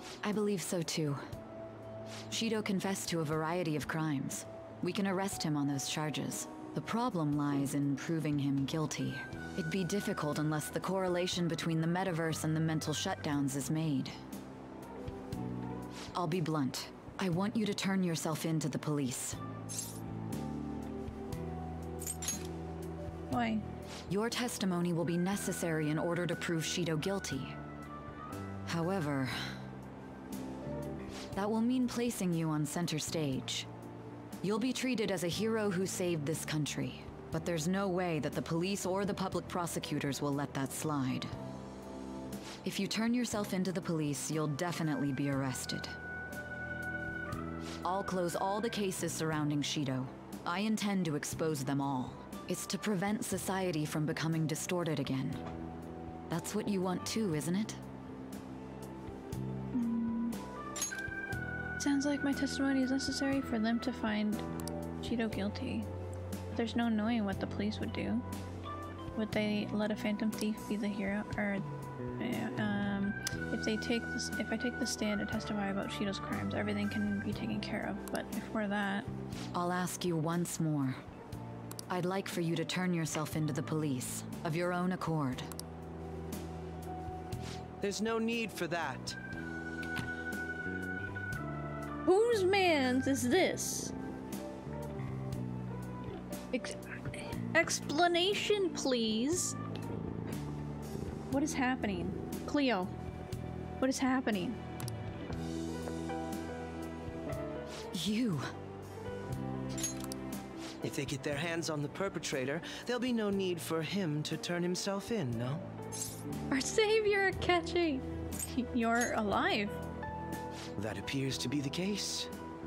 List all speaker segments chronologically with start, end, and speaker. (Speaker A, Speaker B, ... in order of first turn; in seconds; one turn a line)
Speaker A: 0.2-1.2
Speaker A: 2.3-14.1
Speaker A: 16.1-19.4
Speaker B: 23.3-23.6
Speaker A: 24.1-27.5
Speaker A: 28.7-29.4
Speaker A: 31.4-33.7
Speaker A: 34.4-41.3
Speaker A: 42.6-45.9
Speaker A: 47.8-55.4
Speaker A: 56.3-57.8
Speaker B: 59.7-60.4
Speaker B: 61.8-64.4
Speaker B: 65.0-65.9
Speaker B: 66.5-68.2
Speaker B: 69.2-71.6
Speaker B: 72.2-79.1
Speaker A: 79.5-81.0
Speaker A: 81.9-85.5
Speaker C: 87.8-89.2
Speaker B: 92.0-93.9
Speaker B: 96.5-99.5
Speaker B: 101.3-102.9
Speaker B: 103.8-104.6
Speaker A: 107.9-108.5
Speaker C: 110.8-115.6
Speaker B: 116.5-119.8
Speaker C: 120.8-122.3